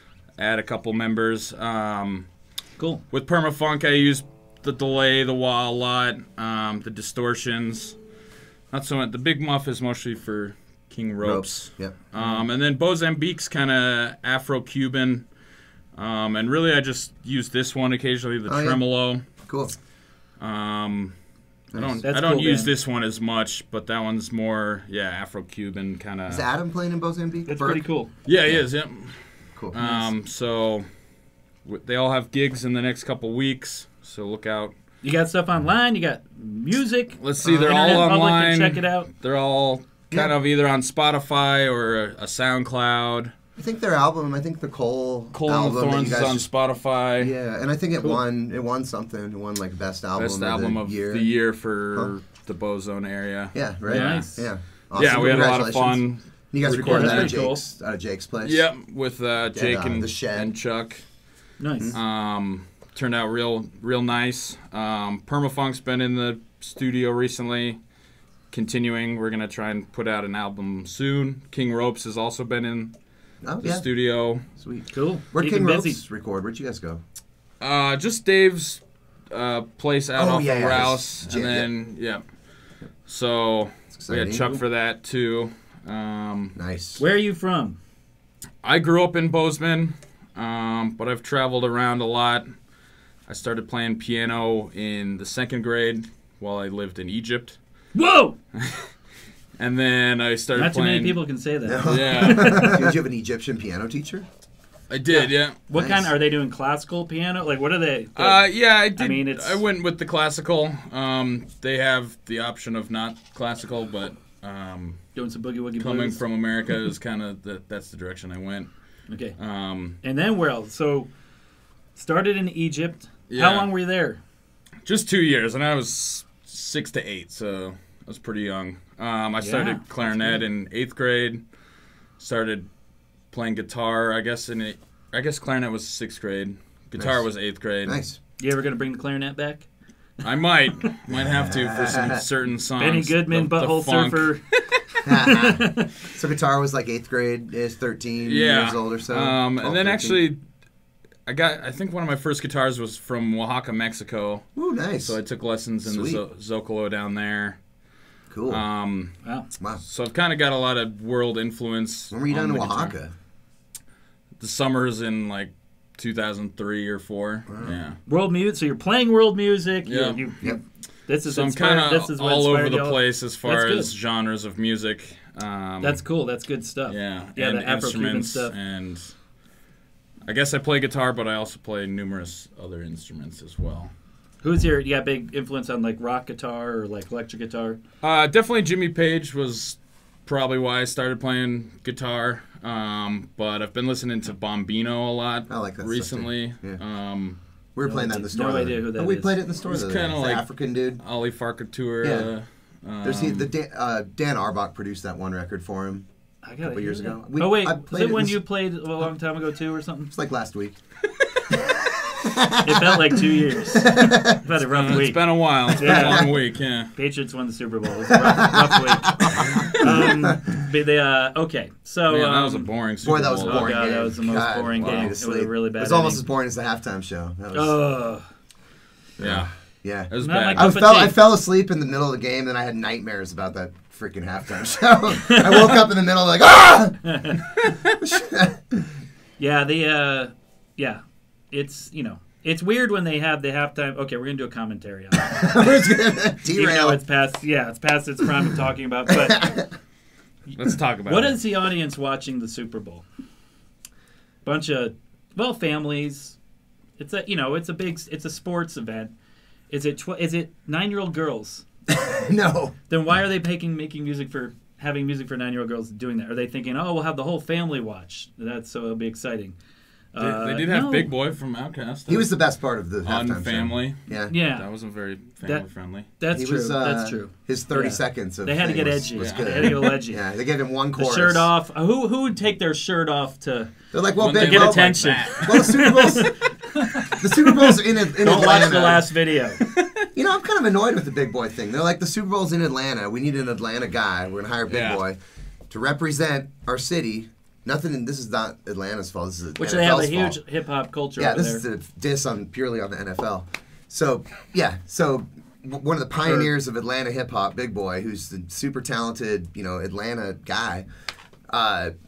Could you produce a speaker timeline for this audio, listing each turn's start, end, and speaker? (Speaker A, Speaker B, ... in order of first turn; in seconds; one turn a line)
Speaker A: 0.4-2.2
Speaker A: 3.1-8.0
Speaker A: 8.7-15.2
Speaker B: 11.2-11.9
Speaker C: 12.2-12.4
Speaker A: 15.9-19.2
Speaker B: 18.5-18.8
Speaker B: 19.4-19.7
Speaker A: 20.4-21.1
Speaker B: 21.7-22.0
Speaker A: 21.7-26.4
Speaker C: 22.0-22.7
Speaker B: 26.3-27.8
Speaker C: 27.4-28.1
Speaker A: 28.2-29.1
Speaker B: 29.6-29.8
Speaker A: 29.7-30.9
Speaker A: 31.6-34.7
Speaker C: 35.0-39.1
Speaker A: 37.2-43.3
Speaker B: 37.4-37.9
Speaker B: 43.5-46.5
Speaker A: 45.3-47.3
Speaker B: 47.2-51.3
Speaker A: 50.1-54.3
Speaker B: 53.5-58.6
Speaker C: 53.9-54.5
Speaker A: 54.9-57.4
Speaker C: 56.8-57.6
Speaker A: 58.4-61.0
Speaker B: 59.5-60.5
Speaker C: 61.6-62.0
Speaker A: 61.9-67.8
Speaker A: 68.5-72.9
Speaker B: 73.4-73.8
Speaker A: 73.6-74.4
Speaker B: 74.6-77.0
Speaker C: 74.9-76.0
Speaker A: 77.6-78.8
Speaker A: 79.3-82.2
Speaker B: 80.2-81.7
Speaker A: 83.1-86.5
Speaker B: 83.9-84.5
Speaker B: 86.5-87.0
Speaker C: 87.0-87.8
Speaker A: 88.6-92.5
Speaker A: 93.3-97.6
Speaker C: 97.9-98.4
Speaker A: 98.5-98.8
Speaker A: 99.6-101.2
Speaker C: 100.5-102.9
Speaker B: 101.6-104.2
Speaker A: 101.8-102.8
Speaker A: 104.9-105.5
Speaker C: 105.1-109.6
Speaker B: 105.7-106.1
Speaker A: 108.2-115.0
Speaker C: 115.1-116.2
Speaker A: 115.8-118.7
Speaker C: 119.1-119.3
Speaker A: 119.4-120.0
Speaker C: 120.0-121.1
Speaker C: 122.0-124.2
Speaker A: 123.3-123.7
Speaker A: 124.8-131.4
Speaker C: 129.4-130.4
Speaker A: 132.2-132.7
Speaker A: 133.3-138.0
Speaker B: 137.0-137.2
Speaker B: 137.8-138.2
Speaker C: 138.4-139.7
Speaker A: 140.2-144.4
Speaker B: 141.1-142.2
Speaker C: 142.8-144.4
Speaker C: 145.0-145.9
Speaker B: 145.0-150.2
Speaker A: 148.2-150.4
Speaker A: 151.2-154.5
Speaker B: 154.6-155.2
Speaker A: 155.0-157.6
Speaker B: 155.8-156.2
Speaker B: 158.3-158.6
Speaker A: 158.5-159.1
Speaker A: 159.8-162.9
Speaker B: 162.1-163.1
Speaker A: 164.4-168.0
Speaker B: 167.5-167.8
Speaker C: 168.1-173.9
Speaker A: 169.8-170.3
Speaker A: 171.2-176.0
Speaker C: 175.8-178.5
Speaker A: 176.9-179.1
Speaker A: 180.2-183.9
Speaker C: 184.4-187.8
Speaker A: 188.0-197.4
Speaker B: 195.5-196.8
Speaker B: 197.8-201.0
Speaker C: 197.8-199.4
Speaker A: 199.7-200.4
Speaker A: 201.0-203.5
Speaker B: 202.0-202.3
Speaker B: 203.0-206.1
Speaker C: 206.4-210.1
Speaker B: 206.6-208.4
Speaker B: 210.1-210.8
Speaker B: 211.5-214.4
Speaker C: 212.6-216.3
Speaker A: 214.6-216.9
Speaker B: 215.7-216.3
Speaker C: 216.9-222.7
Speaker B: 218.1-220.6
Speaker A: 222.1-223.8
Speaker B: 223.0-227.8
Speaker C: 223.4-226.2
Speaker A: 224.8-225.1
Speaker C: 227.5-228.2
Speaker A: 229.2-229.5
Speaker B: 229.2-237.1
Speaker A: 230.1-230.8
Speaker C: 230.2-231.2
Speaker C: 235.2-235.7
Speaker C: 237.0-237.4
Speaker B: 238.0-238.9
Speaker C: 239.4-245.7
Speaker B: 245.3-247.0
Speaker C: 246.5-249.5
Speaker B: 249.1-249.7
Speaker A: 250.5-251.4
Speaker C: 251.1-253.0
Speaker C: 254.4-256.4
Speaker C: 257.0-259.1
Speaker C: 259.7-261.6
Speaker B: 261.9-262.7
Speaker C: 262.9-269.6
Speaker C: 270.1-271.1
Speaker A: 270.2-272.3
Speaker B: 272.1-274.3
Speaker A: 273.0-276.1
Speaker C: 274.3-274.6
Speaker C: 276.2-280.2
Speaker B: 276.3-281.5
Speaker A: 279.2-279.8
Speaker C: 280.9-289.6
Speaker B: 283.9-286.3
Speaker A: 284.2-285.9
Speaker B: 287.1-289.1
Speaker A: 289.6-290.0
Speaker B: 290.1-295.2
Speaker A: 294.7-295.0
Speaker B: 295.7-300.4
Speaker C: 299.6-301.6
Speaker B: 301.2-310.8
Speaker B: 311.5-311.9